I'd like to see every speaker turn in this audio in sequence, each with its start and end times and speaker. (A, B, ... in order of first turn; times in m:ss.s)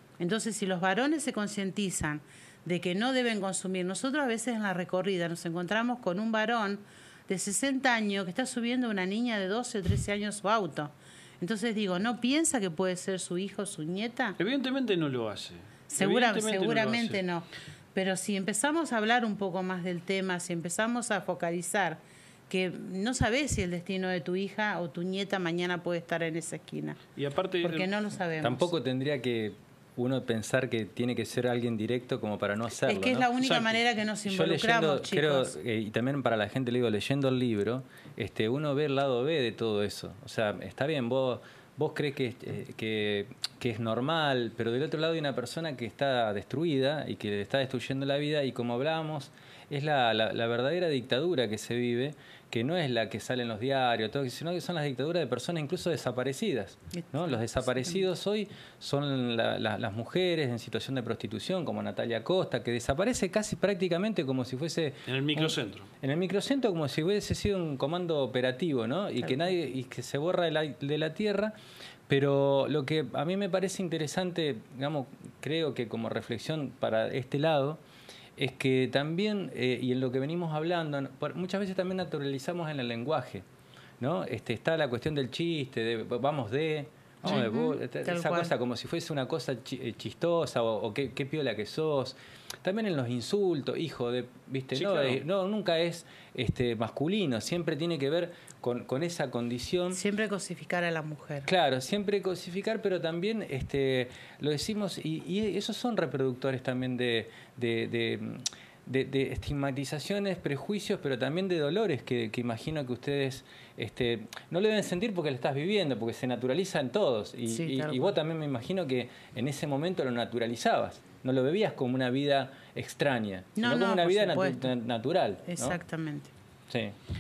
0:00.2-0:14.4 A
0:14.4-0:17.2 B
0:15.9-0:27.0 A
0:27.1-0:27.9 B
0:27.6-0:28.7 A
0:28.4-0:33.3 C
0:32.8-0:35.6 A
0:33.4-0:33.8 B
0:34.2-1:11.5 C
0:56.9-0:58.0 A
1:05.0-1:05.9 B
1:12.1-1:17.8 C
1:18.4-1:23.4 C
1:24.0-1:40.0 C
1:27.2-1:28.5 A
1:34.7-1:35.2 B
1:39.9-1:41.5 A
1:41.4-2:05.8 C
1:57.5-1:58.1 A
2:03.6-2:04.7 A
2:05.4-2:06.3 A
2:06.7-2:06.9 C